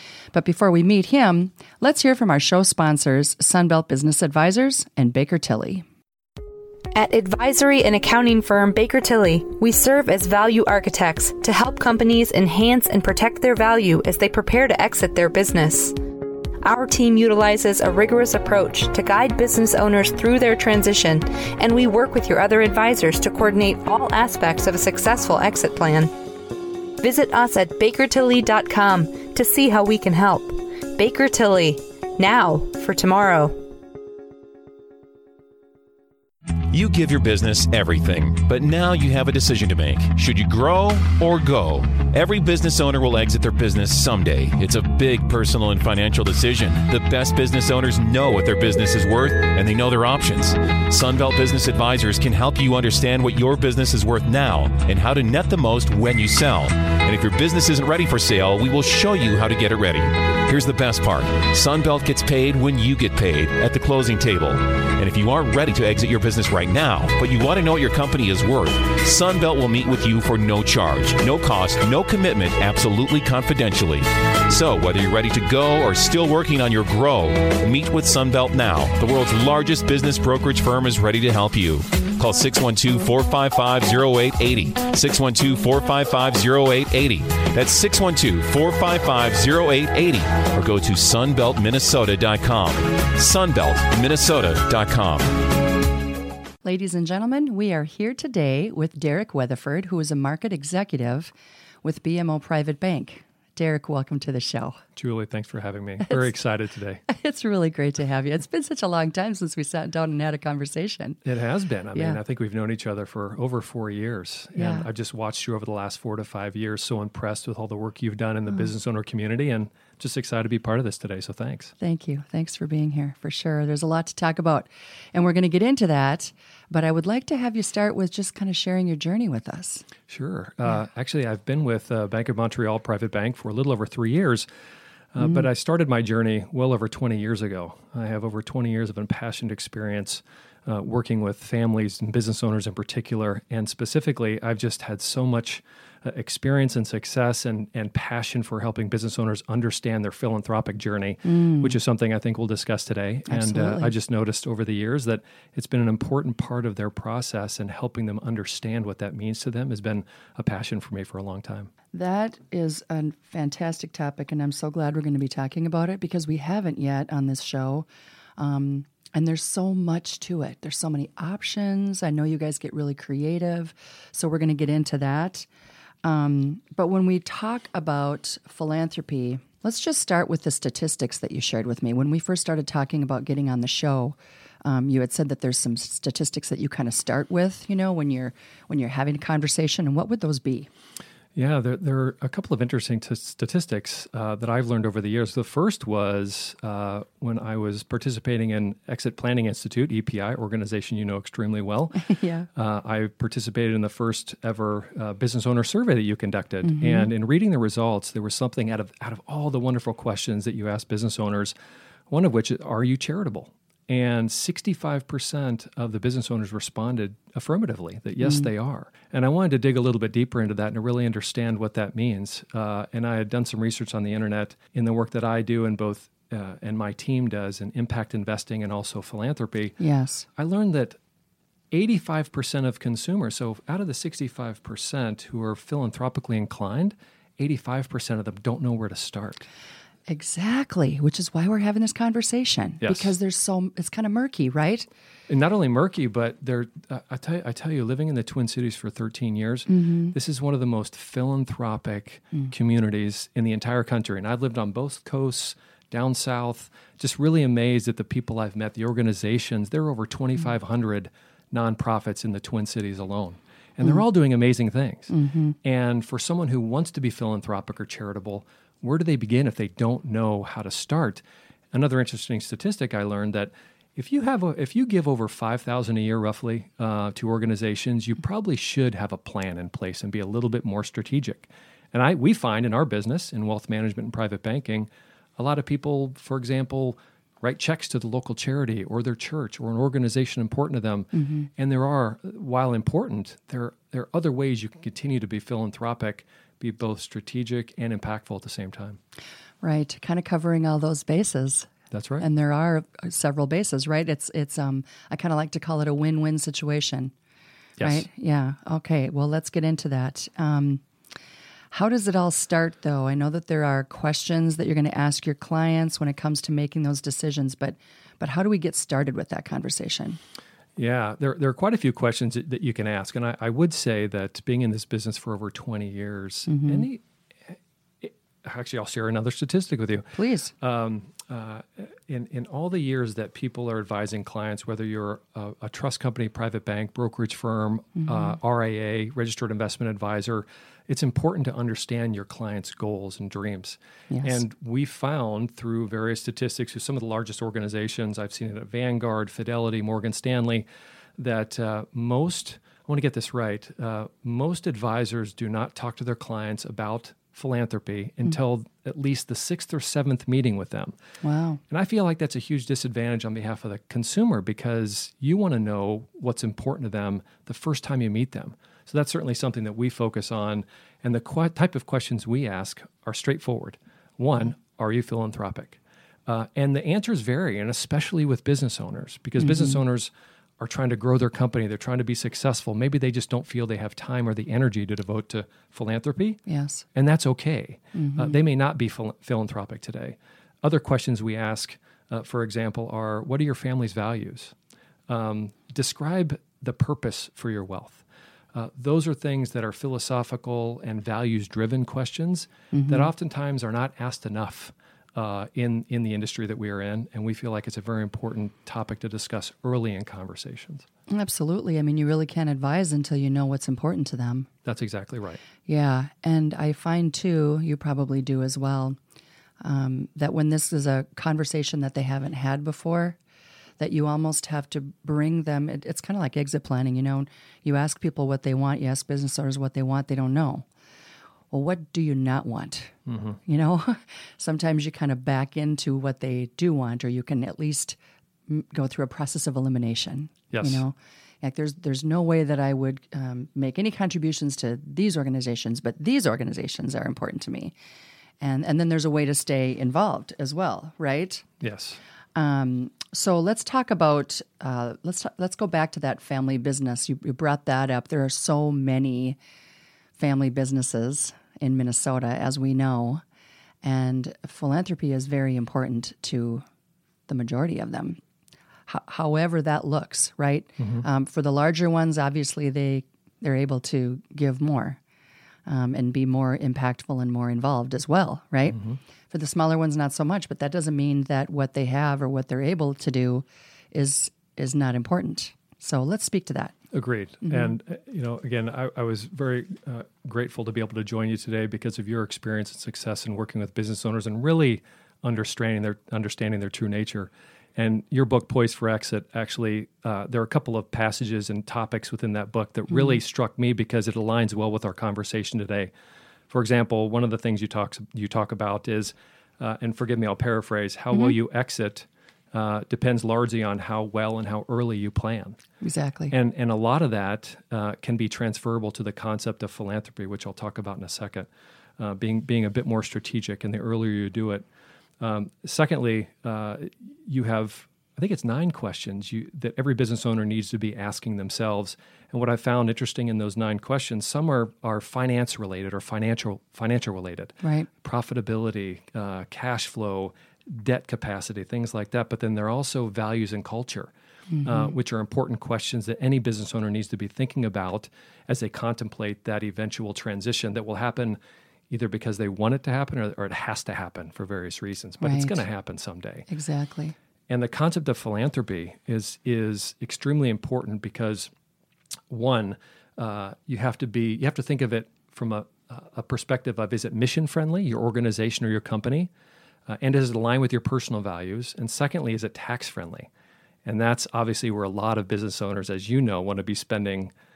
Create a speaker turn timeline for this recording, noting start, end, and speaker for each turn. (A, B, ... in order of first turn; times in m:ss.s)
0:00.3-0:05.8 A
0:06.9-0:16.0 B
0:16.6-0:26.1 B
0:27.0-0:33.6 B
0:36.7-1:35.3 C
1:36.6-1:44.8 A
1:45.0-1:47.0 D
1:47.1-1:51.2 A
1:51.2-2:01.7 D
1:51.9-1:52.2 A
1:54.5-1:54.9 A
2:01.8-2:09.9 A
2:10.1-2:14.4 D
2:15.1-2:41.7 D
2:31.2-2:31.7 A
2:33.3-2:33.9 A
2:41.9-2:55.5 A
2:56.0-3:10.7 A
3:11.3-3:31.5 D
3:22.0-3:22.5 A
3:26.6-3:27.1 A
3:32.1-3:49.8 D
3:38.2-3:38.5 A
3:49.8-3:50.2 A
3:50.3-3:51.0 D
3:51.7-3:59.4 D
4:00.1-4:04.9 A
4:02.8-4:03.1 D
4:05.3-4:25.1 D
4:09.7-4:10.1 A
4:25.1-4:25.6 A
4:25.6-4:59.0 D
4:51.1-4:51.5 A
4:59.6-5:01.7 A
5:01.9-5:02.2 D
5:02.2-5:07.1 A
5:07.8-5:08.0 D
5:07.8-5:10.8 A
5:11.7-5:20.2 A
5:20.8-5:50.6 D
5:26.5-5:26.9 A
5:30.1-5:30.5 A
5:38.0-5:38.3 A
5:44.1-5:44.4 A
5:51.2-6:00.9 D
6:01.2-6:01.6 A
6:01.7-6:26.4 D
6:19.4-6:19.8 A
6:26.5-6:26.8 A
6:26.9-6:34.5 D
6:27.9-6:28.4 A
6:35.1-6:50.8 D
6:42.7-6:43.1 A
6:51.1-6:54.5 A
6:54.6-6:55.4 D
6:55.6-6:59.0 A
6:59.6-7:03.2 A
7:03.8-7:10.6 A
7:11.5-7:12.9 A
7:13.0-7:13.4 D
7:13.5-7:18.0 A
7:18.5-7:27.7 A
7:20.5-7:20.8 D
7:28.4-7:31.4 A
7:31.6-7:32.0 D
7:32.3-7:39.4 A
7:40.2-7:43.2 A
7:43.8-7:46.6 A
7:47.3-7:48.2 A
7:48.9-7:55.0 A
7:50.8-7:51.0 D
7:55.6-8:06.7 A
8:06.9-8:25.9 D
8:07.4-8:07.7 A
8:26.5-8:35.6 D
8:35.8-8:36.3 A
8:36.3-8:44.6 D
8:45.2-9:04.1 D
8:57.6-8:57.9 A
9:04.5-9:04.9 A
9:04.6-9:11.4 D
9:11.9-9:16.5 D
9:15.2-9:15.6 A
9:16.5-9:17.1 A
9:17.5-9:21.5 D
9:22.3-9:29.3 D
9:29.9-9:33.3 D
9:33.8-9:37.3 D